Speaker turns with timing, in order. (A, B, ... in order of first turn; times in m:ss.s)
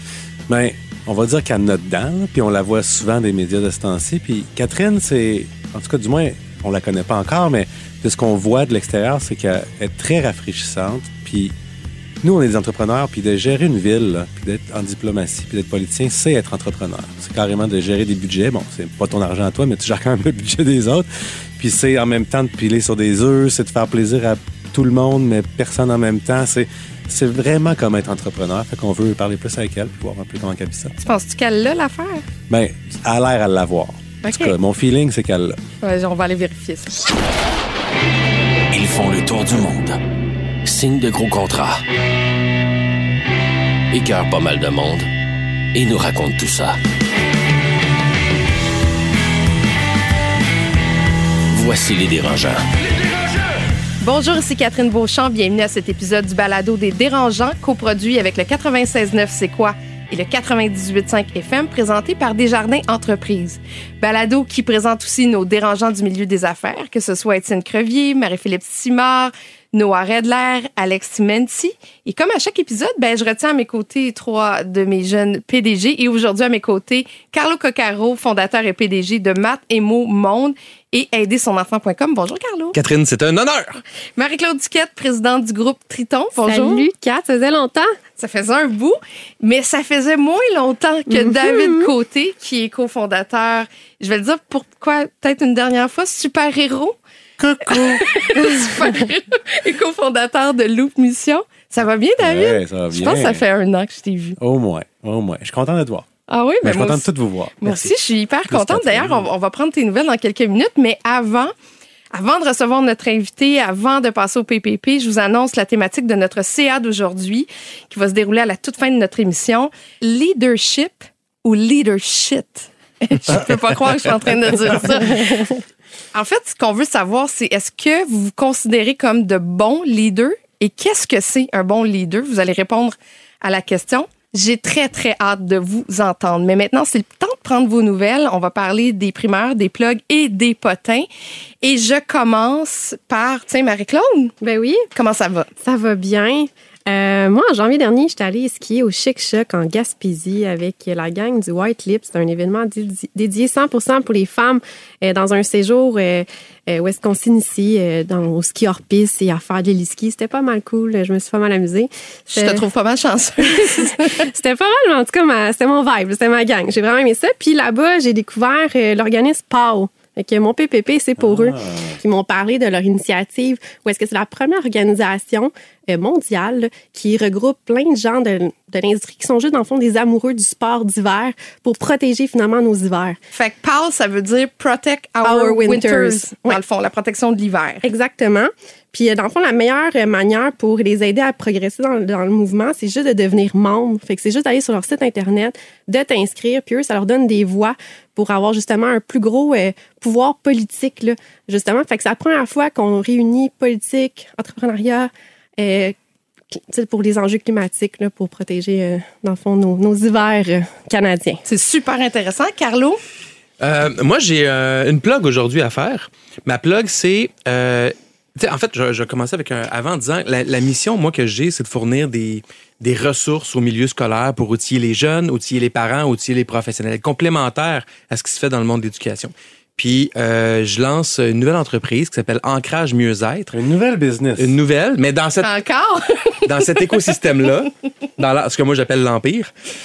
0:00.5-0:11.5 A
0:12.2-0:21.1 A
0:21.6-0:30.9 A
0:31.0-0:32.3 B
0:32.5-0:35.6 A
0:34.2-0:34.5 B
0:35.8-0:37.0 B
0:38.7-0:40.0 C
0:40.6-0:41.8 C
0:43.9-0:45.0 C
0:45.7-0:46.8 C
0:51.5-0:52.6 C
0:54.0-1:22.8 B
1:22.7-1:23.8 D
1:24.2-1:26.9 B
1:26.4-1:28.0 E
1:28.2-1:37.0 B
1:31.1-1:31.9 E
1:37.4-1:38.6 A
1:37.7-1:44.4 B
1:42.2-1:43.4 A
1:44.4-1:46.1 A
1:46.3-1:47.1 B
1:46.6-1:48.0 A
1:47.6-1:51.5 B
1:48.5-1:49.3 A
1:52.1-2:05.6 B
2:06.1-2:21.1 B
2:21.6-2:24.3 B
2:24.4-2:24.9 E
2:24.9-2:25.5 B
2:25.6-2:42.6 E
2:42.3-2:44.1 B
2:43.5-3:03.2 E
2:51.2-2:52.0 A
3:03.3-3:07.8 B
3:05.2-3:06.6 E
3:07.8-3:25.9 E
3:26.5-3:31.4 E
3:31.4-3:33.0 B
3:33.6-3:53.5 D
3:53.5-3:54.5 A
3:54.4-3:55.5 D
3:55.4-3:56.6 B
3:56.4-3:59.5 D